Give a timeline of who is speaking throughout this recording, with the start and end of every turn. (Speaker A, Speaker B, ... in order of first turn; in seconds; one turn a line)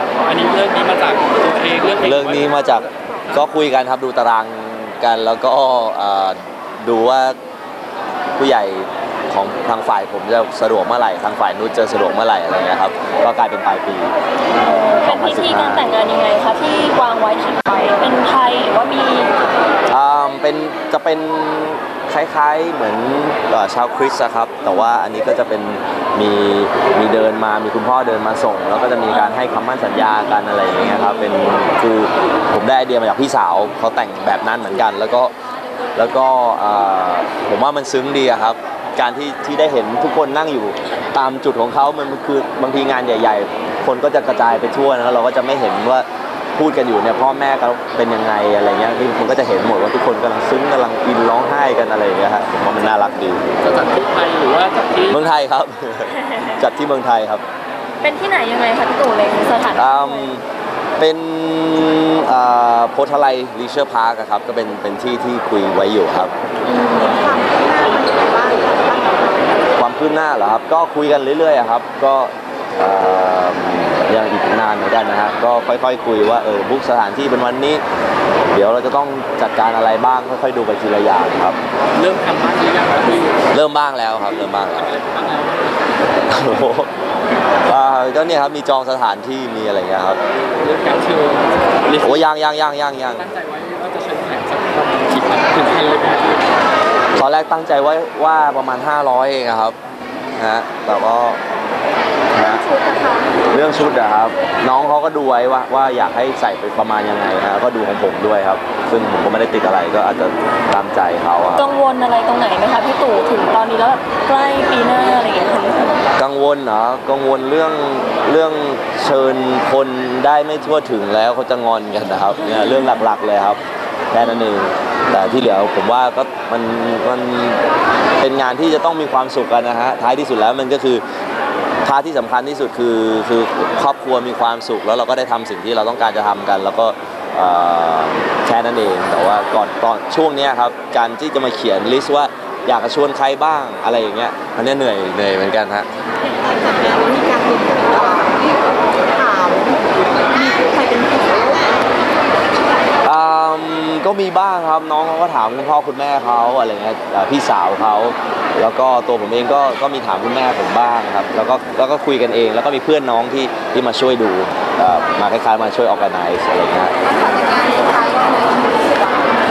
Speaker A: 0.1-2.8
Speaker B: 2.0-7.4
Speaker B: 8.4-14.2
Speaker C: 14.5-19.3
Speaker B: 14.9-15.9
Speaker B: 19.9-35.3
Speaker B: 36.0-53.4
Speaker A: 53.6-55.3
Speaker B: 55.1-57.4
Speaker C: 56.1-56.6
Speaker C: 58.0-60.3
Speaker B: 59.7-60.4
Speaker B: 61.0-66.3
Speaker C: 66.7-67.4
Speaker D: 67.0-69.6
Speaker B: 69.8-77.8
Speaker B: 78.5-81.6
Speaker A: 81.9-83.5
Speaker B: 83.5-84.9
Speaker A: 84.3-85.8
Speaker B: 86.3-86.9
Speaker B: 87.7-90.2
Speaker A: 90.6-92.2
Speaker B: 92.0-93.3
Speaker A: 93.2-96.5
Speaker B: 97.2-99.8
Speaker B: 100.4-101.4
Speaker B: 102.3-102.6
Speaker D: 102.5-103.3
Speaker B: 103.5-111.7
Speaker C: 111.5-116.1
Speaker B: 116.2-123.6
Speaker B: 124.1-127.6
Speaker B: 128.2-131.0
Speaker B: 131.8-145.9
Speaker D: 146.2-148.6
Speaker D: 149.1-151.8
Speaker B: 153.0-166.9
Speaker D: 167.0-169.3